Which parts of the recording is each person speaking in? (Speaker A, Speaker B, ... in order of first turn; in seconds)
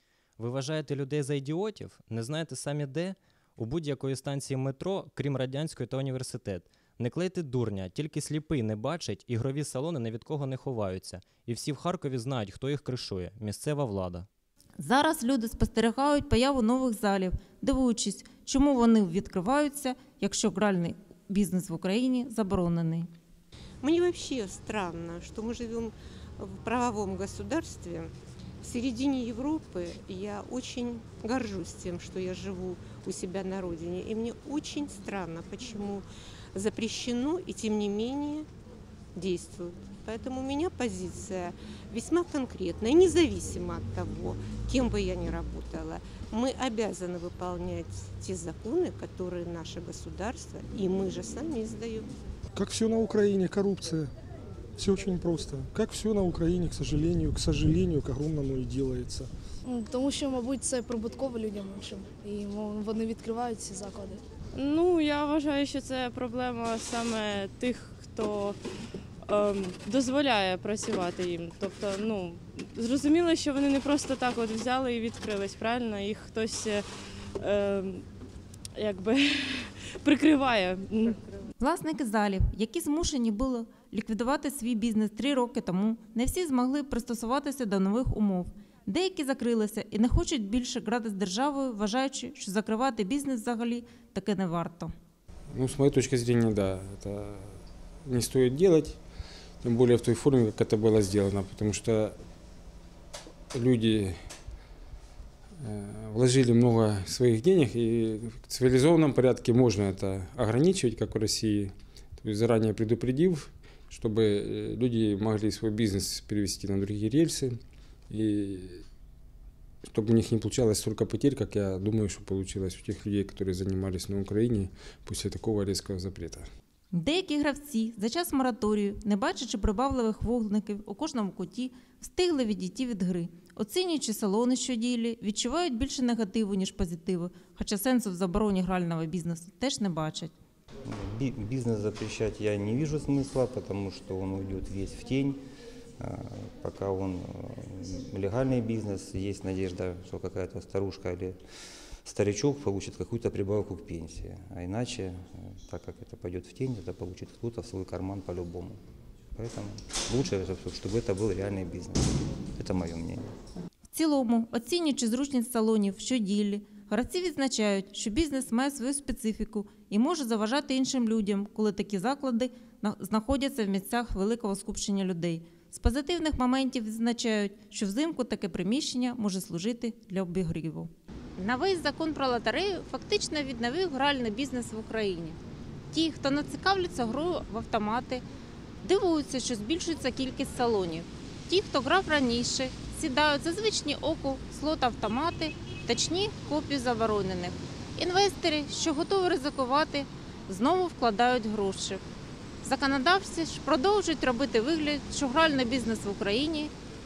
Speaker A: 0.4-14.3
Speaker B: 14.8-23.1, 81.6-94.9, 126.9-140.3, 163.9-185.4, 185.9-188.2, 188.8-202.0, 202.6-206.7
Speaker C: 23.8-38.5, 39.1-52.1
Speaker D: 52.5-54.1, 54.8-59.3
Speaker E: 59.6-64.2
Speaker F: 64.5-68.6, 69.2-76.8, 77.4-78.0, 78.8-81.2
Speaker G: 95.5-99.0, 99.6-102.2, 103.5-104.1, 105.6-117.5, 118.1-118.8, 119.8-126.5
Speaker H: 140.8-145.4, 146.0-151.4, 152.0-158.8, 159.3-163.3